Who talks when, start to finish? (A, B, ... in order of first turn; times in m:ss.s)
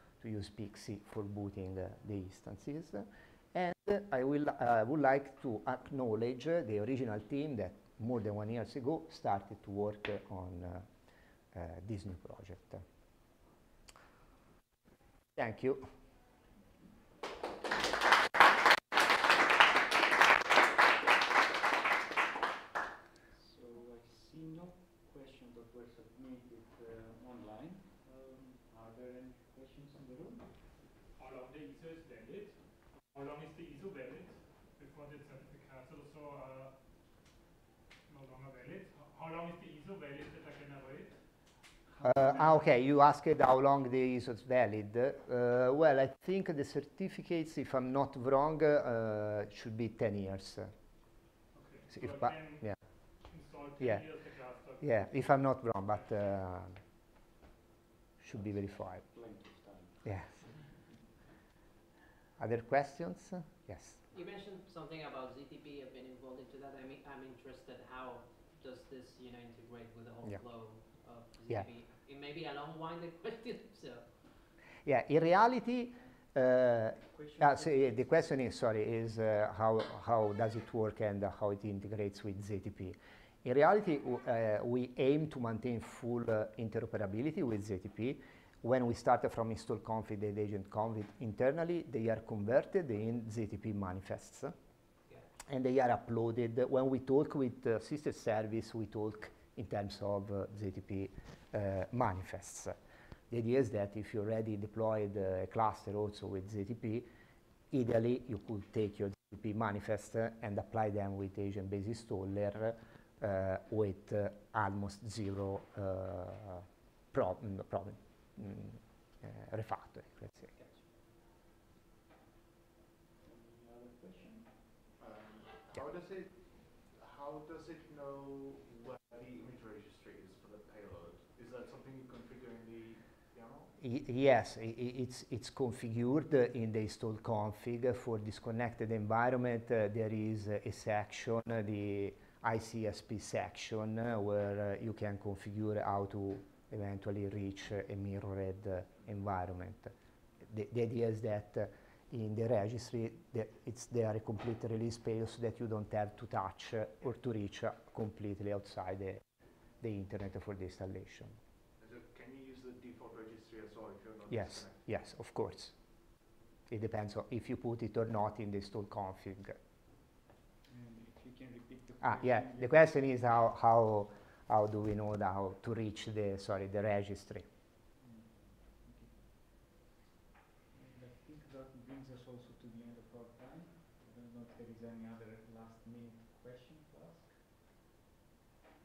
0:00.2-0:10.8 A
0:11.5-0:12.8 A
0:15.4-0:15.8 A
0:23.3-0:30.6 B
0:31.2-0:36.7 C
0:38.1-0:41.2 C
0:42.0-0:50.7 A
0:51.5-0:52.8 C
0:51.9-0:52.8 A
0:53.3-0:55.3 C
0:53.8-0:54.0 A
0:54.8-0:56.8 A
0:58.2-0:59.0 A
0:59.0-1:00.0 B
1:00.0-1:00.4 A
1:02.4-1:04.0 A
1:04.1-1:14.1 D
1:14.8-1:34.5 A
1:17.1-1:18.0 B
1:35.5-1:42.7 A
1:43.3-1:47.1 A
1:47.7-2:00.5 A
2:03.2-2:04.6 B
2:05.0-2:13.7 E
2:13.8-2:29.9 A
2:30.4-2:39.2 A
2:39.8-2:41.3 A
2:41.8-2:44.8 E
2:44.3-2:45.7 A
2:46.7-2:49.6 A
2:50.7-2:52.8 B
2:52.0-2:57.4 A
2:58.0-2:59.3 B
3:00.7-3:07.4 B